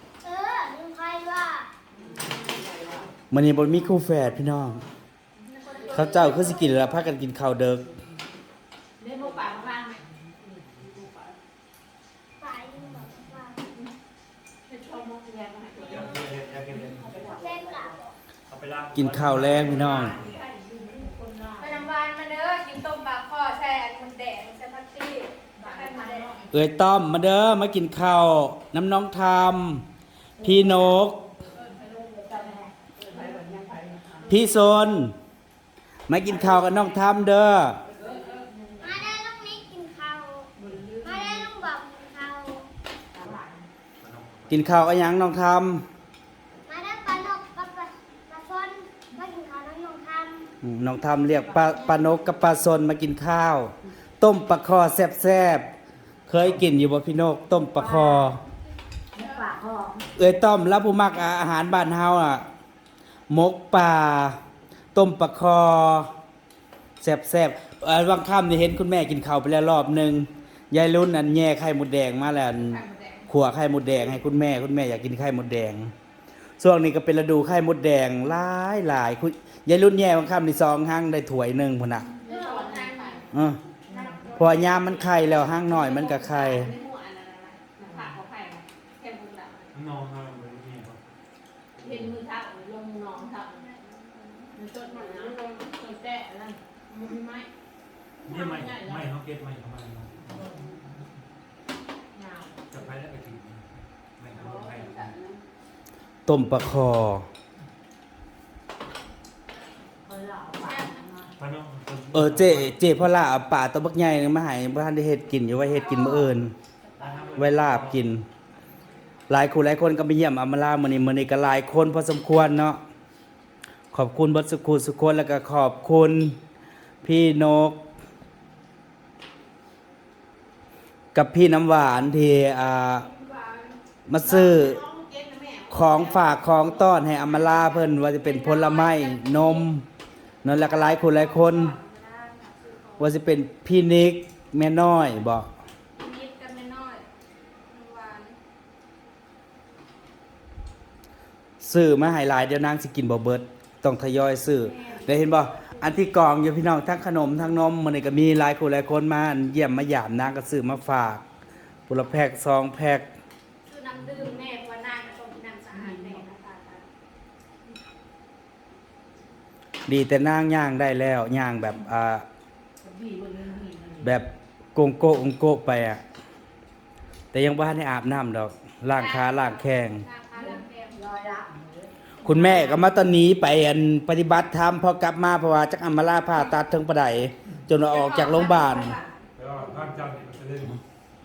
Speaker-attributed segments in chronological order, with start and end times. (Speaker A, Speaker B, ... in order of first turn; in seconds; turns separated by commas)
Speaker A: 0.2-1.7, Speaker B: 1.9-3.1, Speaker C: 3.3-4.8, Speaker D: 5.5-6.7, Speaker B: 5.6-6.7, Speaker C: 5.9-7.8, Speaker B: 9.0-10.1, Speaker B: 10.7-11.3, Speaker A: 12.4-13.6, Speaker B: 14.7-18.0, Speaker E: 15.8-17.4, Speaker A: 17.1-18.1, Speaker E: 18.5-20.4, Speaker C: 18.9-20.2, Speaker B: 19.6-21.6, Speaker A: 20.6-21.6, Speaker D: 21.6-26.4, Speaker B: 25.6-26.5, Speaker C: 26.5-29.8, Speaker C: 30.4-31.2, Speaker B: 31.5-34.4, Speaker A: 31.9-32.7, Speaker C: 34.3-35.1, Speaker C: 36.1-37.8, Speaker B: 36.3-36.8, Speaker B: 37.9-38.8, Speaker A: 38.8-42.7, Speaker B: 40.6-41.6, Speaker E: 44.0-44.9, Speaker C: 44.5-45.8, Speaker A: 46.7-50.5, Speaker C: 50.6-55.7, Speaker B: 51.4-52.3, Speaker C: 56.3-58.4, Speaker A: 57.8-58.3, Speaker B: 59.2-59.5, Speaker A: 59.2-60.0, Speaker C: 60.1-62.5, Speaker C: 63.3-64.4, Speaker C: 64.9-66.1, Speaker C: 67.0-75.9, Speaker B: 72.5-73.3, Speaker C: 76.6-82.1, Speaker B: 82.2-83.2, Speaker D: 82.2-83.1, Speaker C: 83.3-83.6, Speaker A: 83.9-84.3, Speaker D: 83.9-85.6, Speaker C: 84.3-86.7, Speaker B: 85.6-89.7, Speaker E: 89.7-91.0, Speaker E: 91.8-92.2, Speaker B: 91.8-93.6, Speaker D: 93.2-94.5, Speaker B: 94.5-97.5, Speaker B: 98.2-99.1, Speaker E: 98.2-100.5, Speaker A: 100.3-100.8, Speaker D: 102.2-102.5, Speaker E: 102.7-105.1, Speaker B: 104.3-105.4, Speaker C: 106.2-107.3, Speaker A: 110.0-111.3, Speaker D: 110.6-111.1, Speaker E: 111.4-112.8, Speaker C: 112.1-116.5, Speaker D: 115.7-116.2, Speaker E: 117.0-118.0, Speaker C: 117.3-118.2, Speaker C: 119.3-122.8, Speaker C: 123.9-126.4, Speaker C: 127.0-127.8, Speaker C: 131.1-133.1, Speaker D: 133.0-133.8, Speaker C: 134.1-134.8, Speaker B: 134.2-137.1, Speaker C: 135.7-139.8, Speaker D: 137.4-139.7, Speaker C: 140.4-141.8, Speaker D: 140.4-143.2, Speaker C: 143.0-145.5, Speaker D: 146.0-147.0, Speaker D: 147.6-148.4, Speaker C: 151.6-161.2, Speaker D: 154.6-155.1, Speaker C: 161.9-163.1, Speaker D: 163.6-166.9, Speaker B: 165.7-166.2, Speaker C: 169.9-172.2, Speaker B: 172.8-174.2, Speaker C: 174.0-176.0, Speaker C: 177.3-180.1, Speaker D: 178.9-181.1, Speaker A: 181.1-181.8, Speaker D: 182.2-182.9, Speaker C: 182.2-189.0, Speaker D: 187.8-189.2, Speaker E: 189.3-190.8